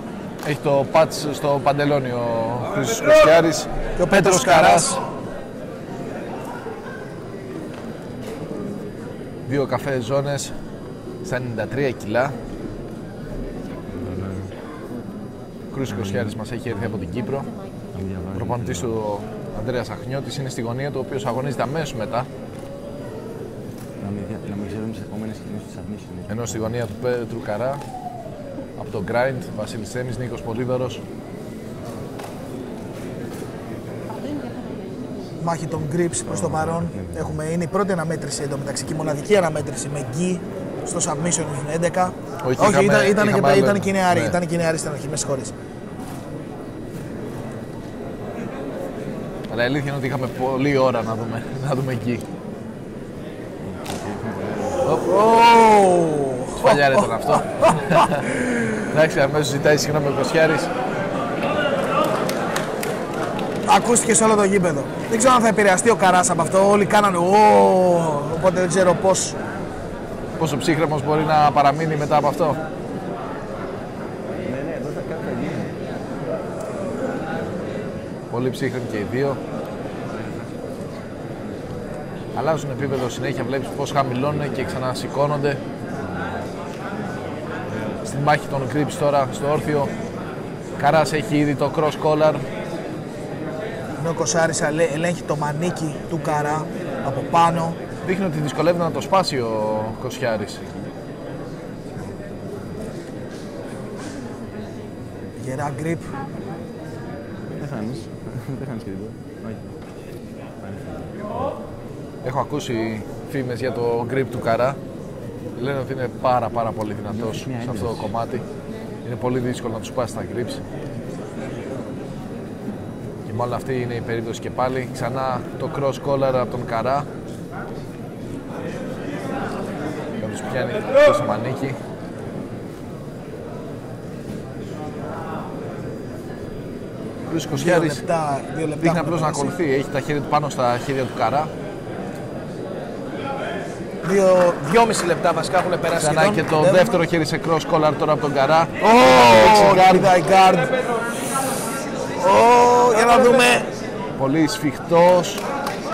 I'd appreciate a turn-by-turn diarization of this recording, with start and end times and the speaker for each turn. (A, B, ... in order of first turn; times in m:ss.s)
0:00.4-0:05.0 A
0:04.0-0:04.9 B
0:09.5-0:10.5 A
0:11.2-0:12.4 A
0:14.1-0:14.4 C
0:15.7-0:17.5 A
0:17.9-0:18.9 C
0:18.3-0:22.3 A
0:24.0-0:26.4 C
0:26.3-0:27.8 A
0:28.8-0:31.0 A
0:35.4-0:45.5 B
0:36.4-0:37.2 C
0:42.4-0:44.4 A
0:49.5-0:52.2 A
0:53.6-0:54.9 C
0:55.0-0:57.9 B
0:56.6-1:00.7 A
1:03.7-1:09.4 B
1:10.4-1:12.6 A
1:14.4-1:15.8 C
1:18.3-1:19.4 A
1:22.4-1:25.6 A
1:28.0-1:29.9 A
1:30.8-1:32.4 A
1:34.0-1:37.8 B
1:38.0-1:40.7 A
1:45.4-1:46.1 B
1:47.5-1:49.7 C
1:50.6-1:51.3 C
1:52.2-1:54.8 A
1:55.6-1:58.4 A
1:57.2-1:58.0 C
1:59.0-2:00.6 A
2:03.3-2:07.1 A
2:10.2-2:11.8 A
2:17.3-2:18.0 A
2:17.5-2:19.6 B
2:18.8-2:21.5 A
2:24.0-2:27.0 B
2:25.9-2:30.1 A
2:28.8-2:30.7 B
2:32.2-2:33.7 B
2:34.2-2:35.4 A